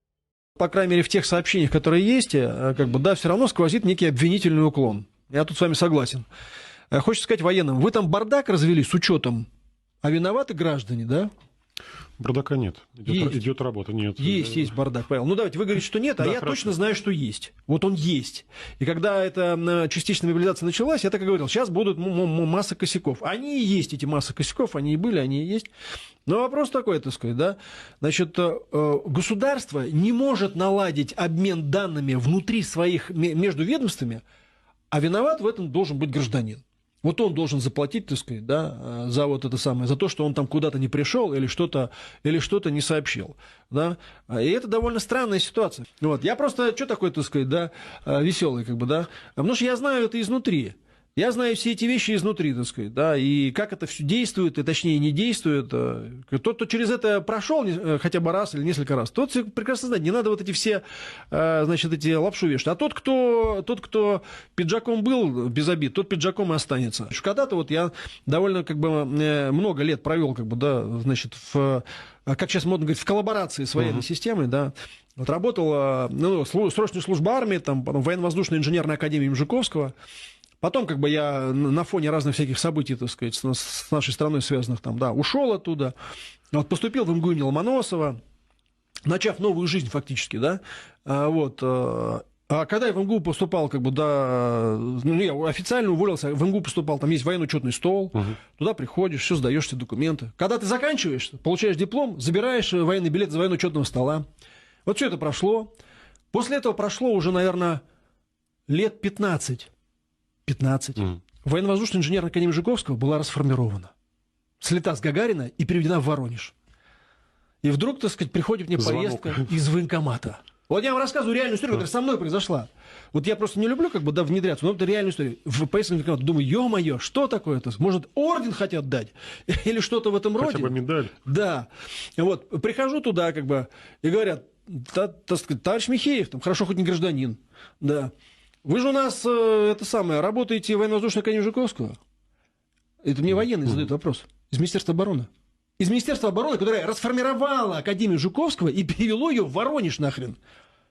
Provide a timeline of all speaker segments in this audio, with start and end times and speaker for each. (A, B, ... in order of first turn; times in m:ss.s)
0:00.6-0:06.3 A
0:06.9-0:09.5 A
0:10.0-0:11.3 A
0:12.2-0:14.8 B
0:13.1-0:13.4 A
0:14.2-0:25.7 A
0:16.2-0:16.8 B
0:26.2-0:34.2 A
0:34.9-1:19.9 A
1:20.6-1:25.9 A
1:26.5-1:28.2 A
1:29.0-1:44.2 A
1:44.8-1:45.7 A
1:46.3-1:47.8 A
1:48.7-1:49.7 A
1:50.4-1:53.9 A
1:54.6-1:56.5 A
1:57.6-2:18.1 A
1:58.8-1:59.5 B
2:10.4-2:11.2 B
2:18.6-2:22.0 A
2:23.0-2:30.4 A